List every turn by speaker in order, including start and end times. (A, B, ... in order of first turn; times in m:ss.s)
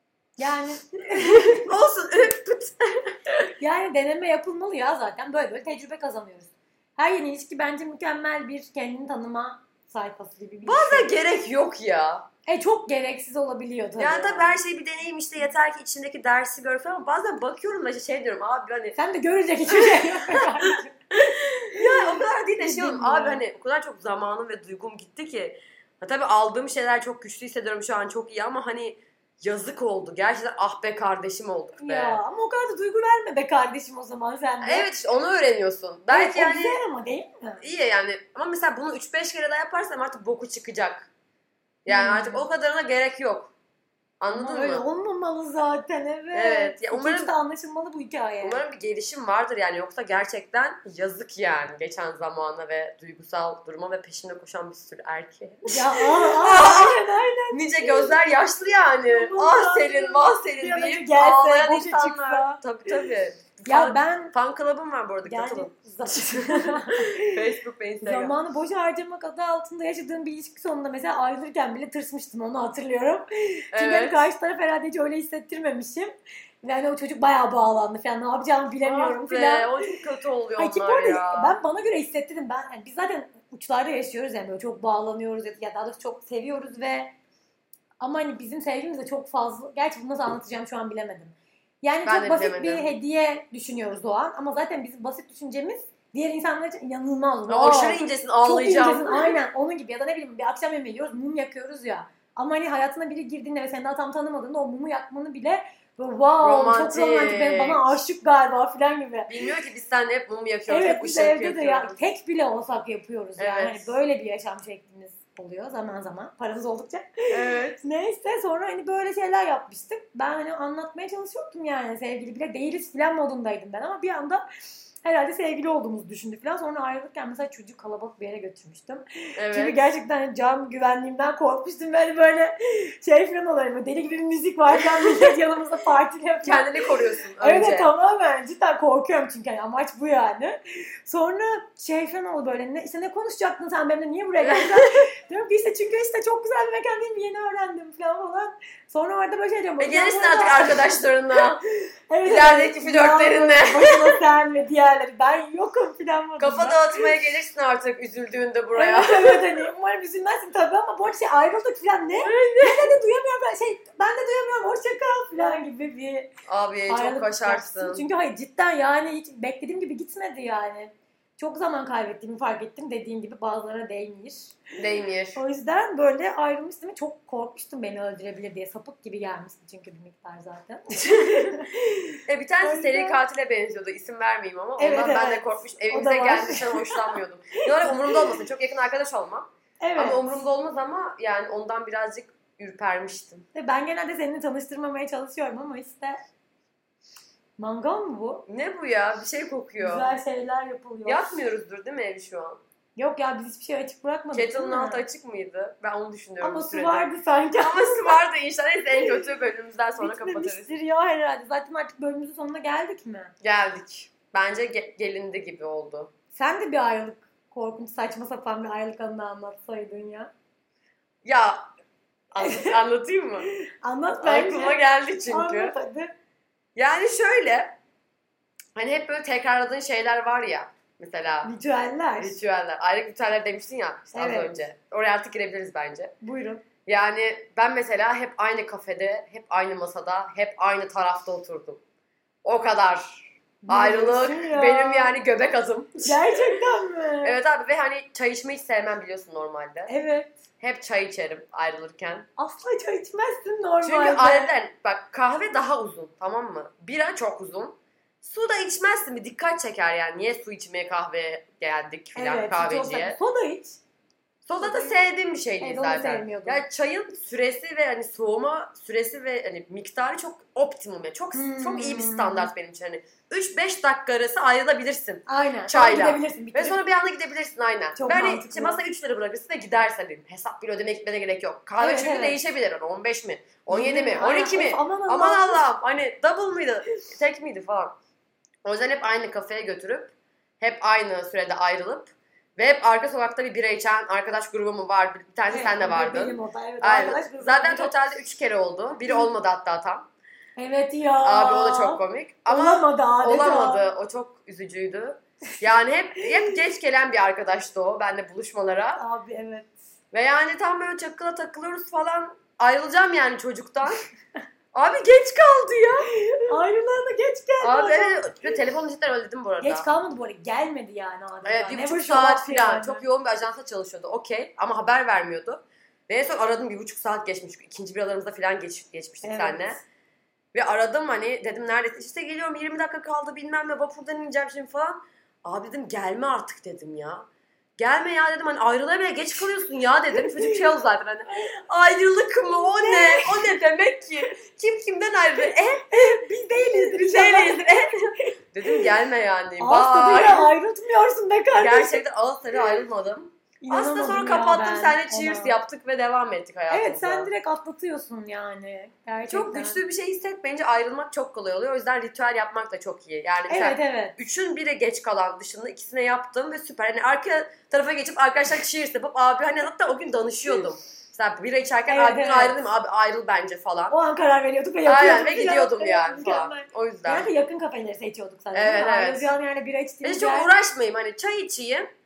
0:00.4-0:01.7 A
0:01.2-0:03.5 B
0:03.6-0:11.1 A
0:10.6-0:12.3 B
0:12.5-0:14.6 A
0:14.0-0:19.0 B
0:19.0-0:21.0 A
0:19.7-0:32.2 B
0:21.8-0:23.4 A
0:31.8-0:34.9 A
0:34.6-0:36.8 B
0:36.1-0:37.6 A
0:37.6-0:41.1 B
0:41.8-0:43.5 B
0:41.9-0:42.4 A
0:44.2-0:44.8 B
0:44.3-0:48.6 A
0:46.3-0:47.3 B
0:48.4-1:08.4 B
0:55.7-0:58.2 A
0:59.1-1:02.6 A
1:03.6-1:04.3 A
1:05.2-1:07.4 A
1:08.0-1:19.9 A
1:13.7-1:14.3 B
1:18.8-1:21.6 B
1:20.6-1:27.1 A
1:28.0-1:49.4 A
1:32.0-1:33.0 B
1:37.5-1:39.4 B
1:46.4-1:48.0 B
1:49.3-1:52.0 B
1:50.7-1:57.1 A
1:53.4-1:53.9 B
1:57.3-1:57.8 B
1:57.8-2:04.4 A
2:05.0-2:16.8 A
2:09.4-2:09.8 B
2:16.4-2:17.9 B
2:17.4-2:31.4 A
2:24.4-2:24.9 B
2:29.8-2:31.6 B
2:32.1-2:37.1 A
2:32.2-2:34.2 B
2:36.4-2:39.7 B
2:38.8-2:46.3 A
2:42.2-2:43.0 B
2:46.5-2:48.0 B
2:46.9-2:54.6 A
2:54.8-2:55.4 B
2:55.4-3:03.2 A
3:01.2-3:01.6 B
3:02.3-3:13.5 B
3:04.8-3:07.2 A
3:07.7-3:08.4 A
3:09.8-3:10.3 A
3:13.6-3:16.2 A
3:17.6-3:18.5 A
3:18.5-3:20.1 B
3:19.8-3:21.4 A
3:21.1-3:22.6 B
3:23.0-3:25.0 A
3:24.3-3:30.7 B
3:26.4-3:28.2 A
3:30.0-3:33.3 A
3:33.4-3:36.1 B
3:36.3-3:40.3 A
3:41.2-3:41.7 B
3:42.3-3:43.5 B
3:42.4-3:42.8 A
3:43.4-3:46.1 A
3:44.2-3:45.8 B
3:46.8-3:47.8 B
3:48.8-3:51.5 B
3:51.4-3:52.4 A
3:52.2-3:56.1 B
3:54.1-3:54.6 A
3:56.2-3:56.6 A
3:56.9-4:01.8 B
4:02.4-4:06.6 B
4:03.6-4:05.2 A
4:06.0-4:07.4 A
4:07.2-4:09.9 B
4:09.9-4:10.4 A
4:10.6-4:12.3 B
4:12.4-4:14.5 A
4:13.8-4:23.2 B
4:22.2-4:23.8 A
4:24.4-4:48.0 B
4:24.6-4:25.0 A
4:25.6-4:26.6 A
4:31.3-4:32.5 A
4:35.3-4:36.8 A
4:38.0-4:38.8 A
4:41.8-4:42.4 A
4:43.7-4:45.7 A
4:48.6-5:00.1 B
4:55.5-4:57.9 A
5:00.6-5:03.9 A
5:01.2-5:09.0 B
5:09.0-5:09.8 A
5:10.1-5:14.0 B
5:14.7-5:16.1 B
5:16.5-5:18.5 A
5:17.6-5:19.9 B
5:19.6-5:23.0 A
5:21.4-5:29.8 B
5:29.2-5:29.8 A
5:30.5-5:37.3 B
5:37.8-5:50.5 B
5:40.2-5:40.6 A
5:42.6-5:43.4 A
5:45.9-5:48.9 A
5:49.6-5:52.0 A
5:51.6-5:57.3 B
5:53.6-5:55.6 A
5:56.7-5:59.8 A
5:59.3-6:14.0 B
6:03.5-6:04.2 A
6:11.9-6:12.6 A
6:13.9-6:20.5 A
6:14.9-6:17.3 B
6:18.5-6:19.3 B
6:20.0-6:21.9 B